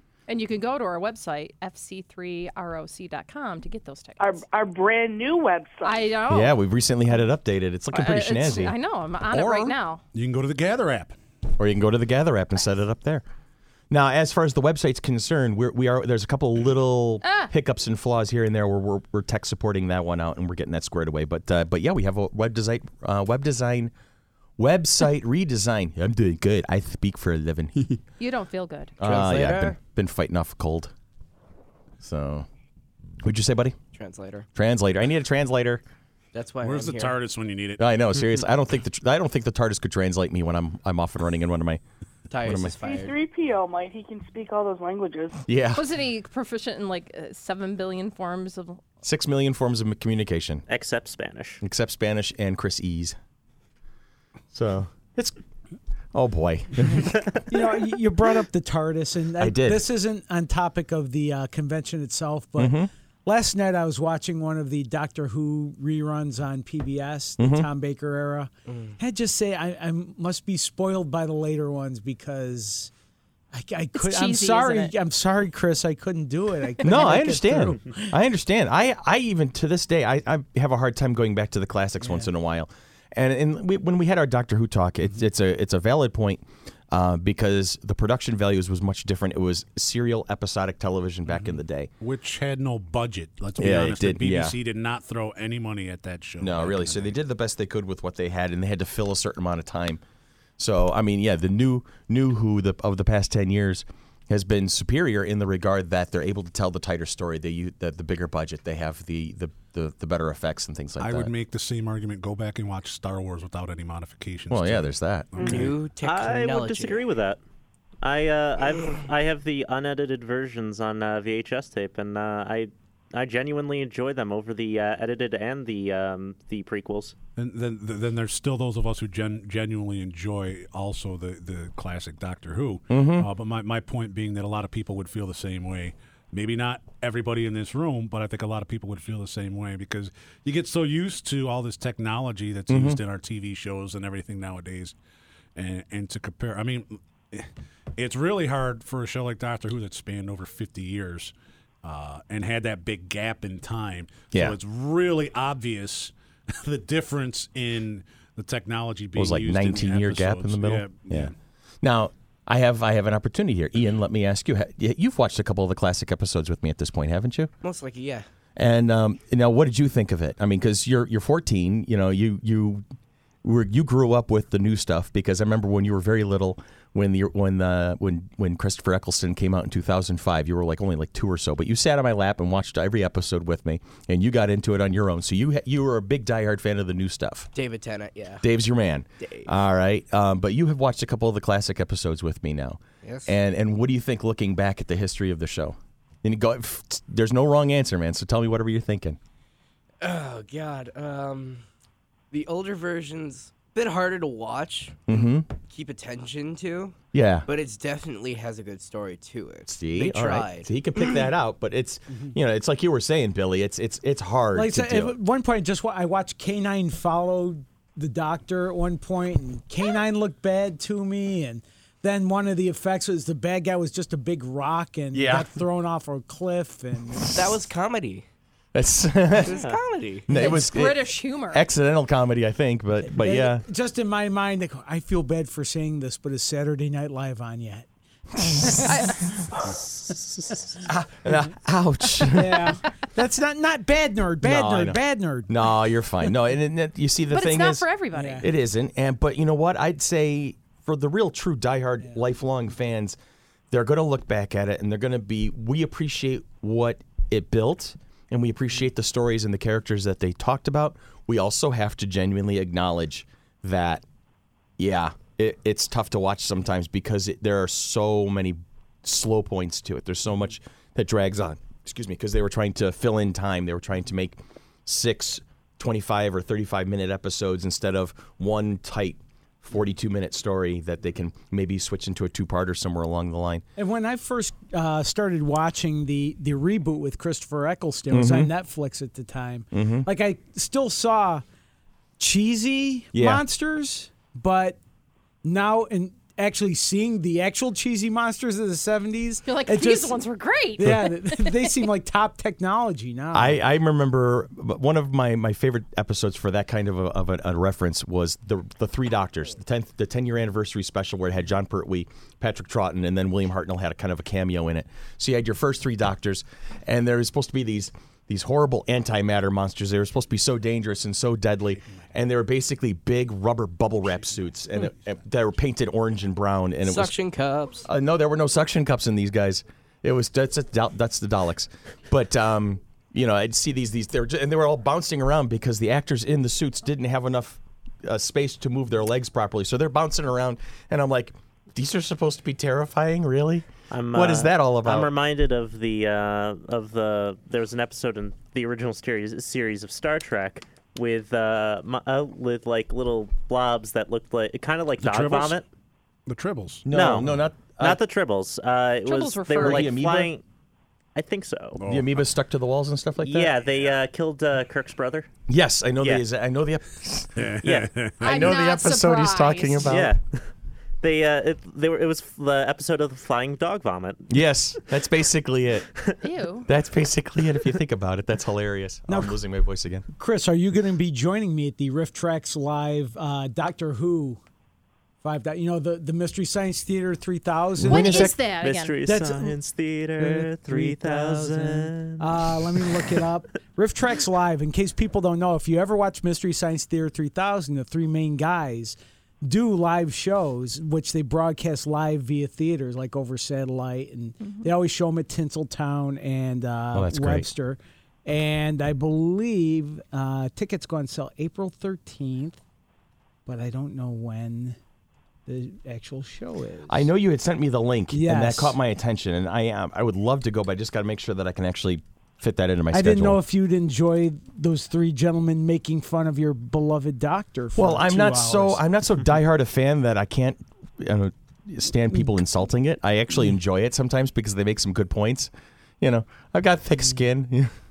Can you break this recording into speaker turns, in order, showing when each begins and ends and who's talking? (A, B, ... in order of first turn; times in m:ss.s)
0:00.3-0:04.4 A
0:04.2-0:06.1 B
0:05.8-0:06.6 A
0:06.3-0:08.7 C
0:07.9-0:10.0 A
0:09.3-0:11.2 D
0:11.5-0:13.2 C
0:13.9-0:23.9 C
0:17.2-0:17.5 A
0:24.6-0:28.0 C
0:28.2-0:28.9 A
0:29.0-0:30.9 C
0:29.0-0:29.8 E
0:32.0-0:32.5 C
0:33.2-0:33.8 C
0:33.9-0:34.5 E
0:34.6-0:35.8 C
0:36.3-0:37.1 E
0:36.6-0:38.0 D
0:37.8-0:41.8 C
0:42.3-0:43.2 E
0:42.4-0:42.7 C
0:42.8-0:45.4 B
0:45.5-0:45.9 C
0:45.7-0:48.8 A
0:49.0-0:50.6 C
0:50.7-0:51.6 F
0:51.6-0:53.2 C
0:54.5-0:55.4 C
0:56.1-0:57.2 C
0:57.5-1:12.9 G
0:59.4-0:59.8 C
1:02.6-1:02.9 C
1:07.4-1:07.7 C
1:08.7-1:08.9 E
1:13.5-1:18.1 G
1:13.9-1:14.9 A
1:16.8-1:31.9 C
1:31.3-1:37.2 D
1:33.6-1:34.6 C
1:36.4-1:40.0 C
1:40.6-1:51.3 C
1:51.0-1:55.8 D
1:54.5-1:55.7 C
1:55.4-1:57.1 E
1:56.0-1:57.4 F
1:58.0-2:07.1 F
2:07.4-2:24.9 D
2:12.9-2:13.3 C
2:22.7-2:23.0 C
2:25.6-2:31.3 D
2:31.8-2:41.4 D
2:34.3-2:34.6 C
2:39.2-2:47.5 C
2:47.6-2:48.3 E
2:48.6-2:52.8 C
2:53.4-3:07.5 C
3:07.5-3:08.4 E
3:08.4-3:19.2 C
3:09.2-3:09.5 E
3:13.0-3:13.4 E
3:20.0-3:21.6 E
3:22.3-3:30.7 E
3:25.1-3:25.5 C
3:27.1-3:27.5 C
3:29.7-3:35.2 C
3:34.5-3:47.4 G
3:45.1-3:45.5 C
3:47.1-3:47.6 C
3:47.3-3:48.2 E
3:48.7-3:49.6 C
3:49.3-3:50.3 E
3:50.2-3:53.6 C
3:50.3-3:51.6 A
3:53.1-3:57.9 G
3:58.4-3:58.9 G
3:58.9-3:59.3 A
4:00.1-4:00.6 F
4:00.8-4:02.8 C
4:02.2-4:05.5 G
4:04.4-4:07.9 C
4:07.3-4:08.4 A
4:08.1-4:08.5 G
4:08.4-4:13.2 C
4:13.7-4:24.0 C
4:24.8-4:43.6 C
4:43.8-4:51.4 G
4:48.1-4:48.5 C
4:49.7-4:50.1 C
4:52.2-4:54.8 G
4:53.1-4:53.4 C
4:55.4-5:00.2 G
4:59.4-5:01.8 A
5:00.8-5:03.6 G
5:00.8-5:01.1 C
5:03.3-5:27.1 C
5:26.9-5:27.9 E
5:27.8-5:45.1 C
5:43.9-5:55.6 F
5:55.0-5:55.6 D
5:56.3-5:57.4 D
5:56.9-5:58.0 C
5:56.9-6:00.4 F
5:59.0-5:59.9 A
5:59.6-6:00.3 C
6:01.1-6:01.8 F
6:01.8-6:02.1 D
6:01.8-6:03.6 C
6:03.2-6:05.3 F
6:05.5-6:07.5 C
6:07.4-6:08.2 D
6:07.6-6:07.9 F
6:08.2-6:10.2 C
6:08.2-6:10.0 A
6:09.9-6:10.4 F
6:11.0-6:14.3 F
6:14.3-6:15.9 C
6:16.2-6:16.7 A
6:16.6-6:20.1 C
6:19.1-6:19.4 G
6:20.2-6:24.4 G
6:25.2-6:28.4 G
6:27.8-6:28.3 C
6:27.8-6:29.0 A
6:27.9-6:33.0 F
6:29.0-6:29.6 G
6:30.2-6:52.6 G
6:46.9-6:47.5 C
6:53.4-6:54.8 G
6:55.4-6:57.1 G
6:56.9-7:03.4 C
6:58.1-6:58.8 G
7:02.9-7:08.8 G
7:07.8-7:17.7 C